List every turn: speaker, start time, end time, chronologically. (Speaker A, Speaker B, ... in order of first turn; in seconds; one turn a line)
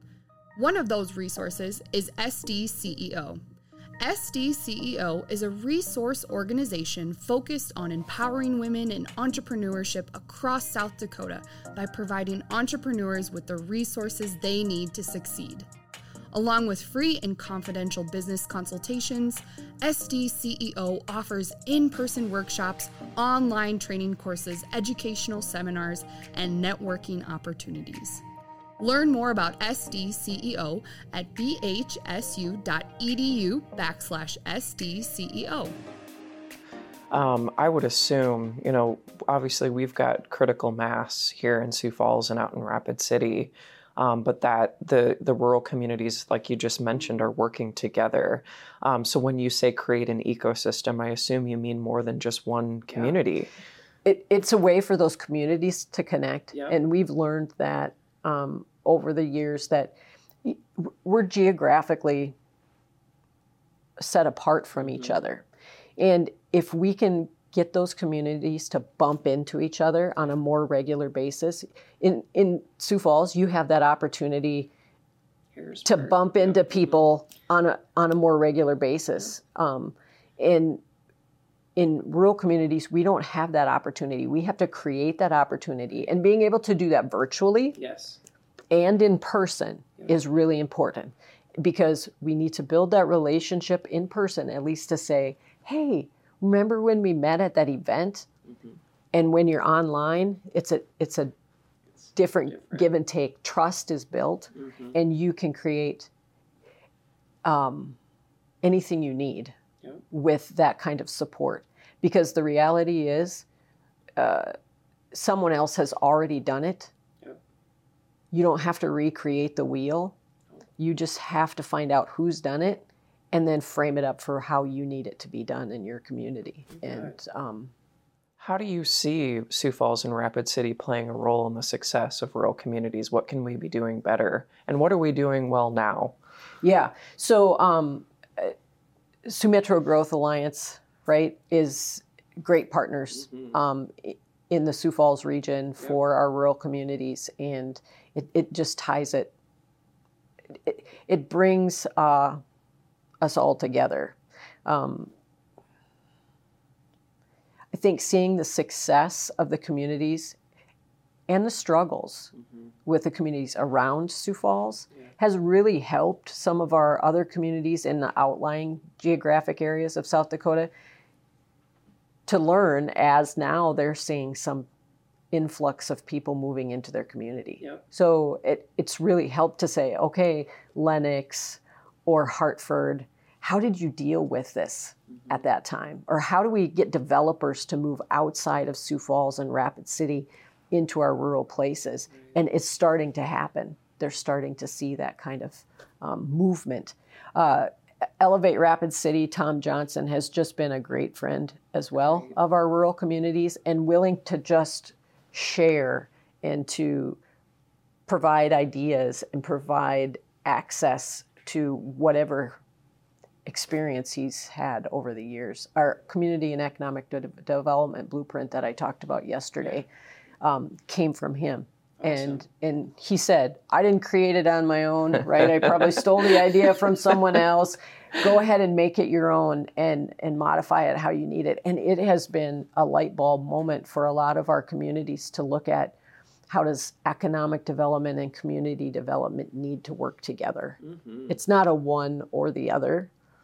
Speaker A: 0.6-3.4
Speaker A: 4.0-15.7
Speaker A: 16.3-28.2
Speaker A: 28.8-35.8
Speaker B: 37.1-53.5
Speaker C: 54.0-62.3
Speaker C: 64.0-65.5
Speaker C: 66.0-74.7
Speaker B: 75.5-76.3
Speaker C: 75.8-80.8
Speaker C: 81.8-87.8
Speaker B: 87.8-88.2
Speaker C: 88.7-98.3
Speaker C: 99.1-101.3
Speaker C: 102.1-106.1
Speaker B: 104.6-104.9
Speaker C: 107.4-108.0
Speaker C: 108.6-109.5
Speaker C: 110.1-113.4
Speaker C: 114.2-114.5
Speaker C: 115.1-116.9
Speaker C: 118.3-120.1
Speaker C: 120.8-127.7
Speaker B: 128.4-136.1
Speaker C: 136.6-138.5
Speaker C: 139.2-149.3
Speaker C: 150.5-152.4
Speaker C: 153.2-155.1
Speaker C: 157.7-160.4
Speaker C: 161.3-162.3
Speaker C: 162.8-170.7
Speaker C: 172.3-174.7
Speaker C: 175.3-207.2
Speaker C: 208.1-212.6
Speaker C: 213.4-219.9
Speaker C: 220.4-236.0
Speaker B: 222.0-222.4
Speaker C: 236.5-243.1
Speaker B: 240.9-241.2